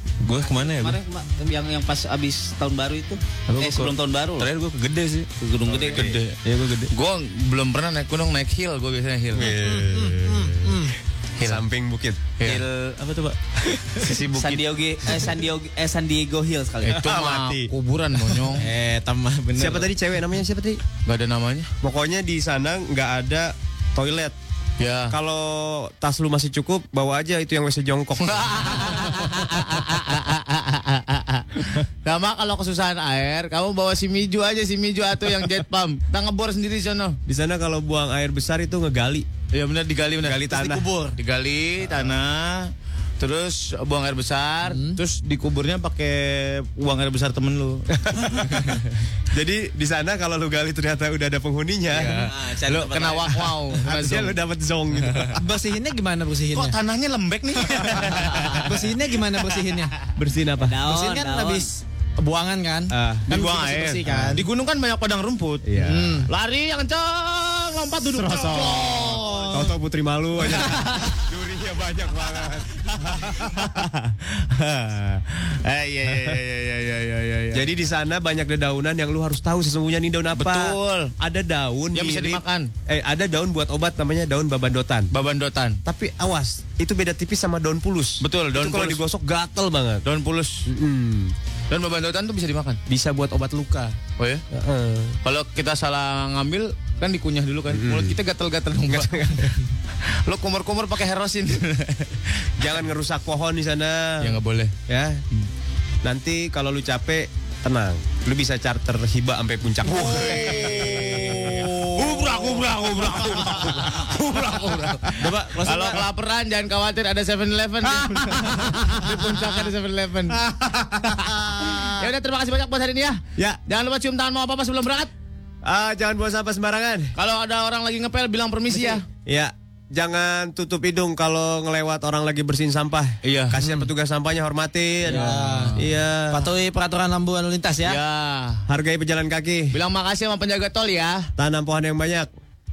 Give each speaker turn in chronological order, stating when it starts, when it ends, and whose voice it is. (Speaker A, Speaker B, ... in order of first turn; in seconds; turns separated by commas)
Speaker A: 0.2-1.0, Speaker B: 0.4-4.5, Speaker A: 3.5-6.8, Speaker B: 5.4-6.1, Speaker C: 5.7-6.2, Speaker D: 6.9-9.5, Speaker C: 9.3-10.9, Speaker E: 9.4-10.9, Speaker C: 11.4-12.2, Speaker A: 12.4-13.4, Speaker D: 14.0-14.6, Speaker B: 14.3-17.0, Speaker D: 16.8-18.6, Speaker C: 17.0-17.7, Speaker A: 18.5-19.9, Speaker C: 19.6-20.8, Speaker D: 21.1-21.7, Speaker C: 21.8-24.4, Speaker D: 24.8-25.1, Speaker C: 25.1-29.2, Speaker D: 28.5-37.2, Speaker C: 37.2-39.2, Speaker D: 39.5-40.5, Speaker C: 40.2-40.9, Speaker E: 40.5-41.1, Speaker D: 41.1-48.8, Speaker E: 44.7-45.0, Speaker C: 48.0-48.6, Speaker C: 49.3-52.3, Speaker A: 51.9-53.5, Speaker D: 52.6-54.4, Speaker C: 53.8-55.4, Speaker D: 55.0-55.3, Speaker E: 55.4-56.8, Speaker D: 56.5-58.7, Speaker E: 57.7-58.0, Speaker E: 58.6-59.9, Speaker C: 60.2-60.8, Speaker B: 60.6-61.7, Speaker E: 60.8-64.4, Speaker C: 62.9-64.4, Speaker D: 63.3-69.7, Speaker C: 65.6-66.2, Speaker C: 68.1-73.6, Speaker E: 68.7-69.4, Speaker D: 73.0-77.7, Speaker C: 77.5-85.1, Speaker D: 80.3-81.1, Speaker D: 81.9-82.7, Speaker D: 85.1-85.8, Speaker C: 85.8-90.0, Speaker D: 88.2-89.0, Speaker D: 90.0-90.7, Speaker C: 90.7-91.3, Speaker D: 91.7-92.8, Speaker C: 92.9-94.0, Speaker C: 94.5-95.2, Speaker D: 95.2-99.2, Speaker C: 97.7-98.2, Speaker C: 98.9-99.6, Speaker D: 100.1-102.5, Speaker C: 102.6-104.4, Speaker D: 104.2-104.7, Speaker C: 104.9-105.2, Speaker C: 106.0-112.1, Speaker D: 109.8-120.4, Speaker A: 115.2-116.0, Speaker E: 115.5-115.8, Speaker E: 117.9-119.7, Speaker C: 120.5-121.8, Speaker D: 121.6-125.1, Speaker C: 125.6-127.1, Speaker D: 127.1-129.0, Speaker C: 128.8-136.5, Speaker D: 133.2-133.6, Speaker E: 135.1-135.8, Speaker D: 135.1-135.8, Speaker E: 136.3-138.0, Speaker D: 137.8-138.6, Speaker C: 138.7-139.7, Speaker D: 139.7-141.3, Speaker C: 141.4-142.3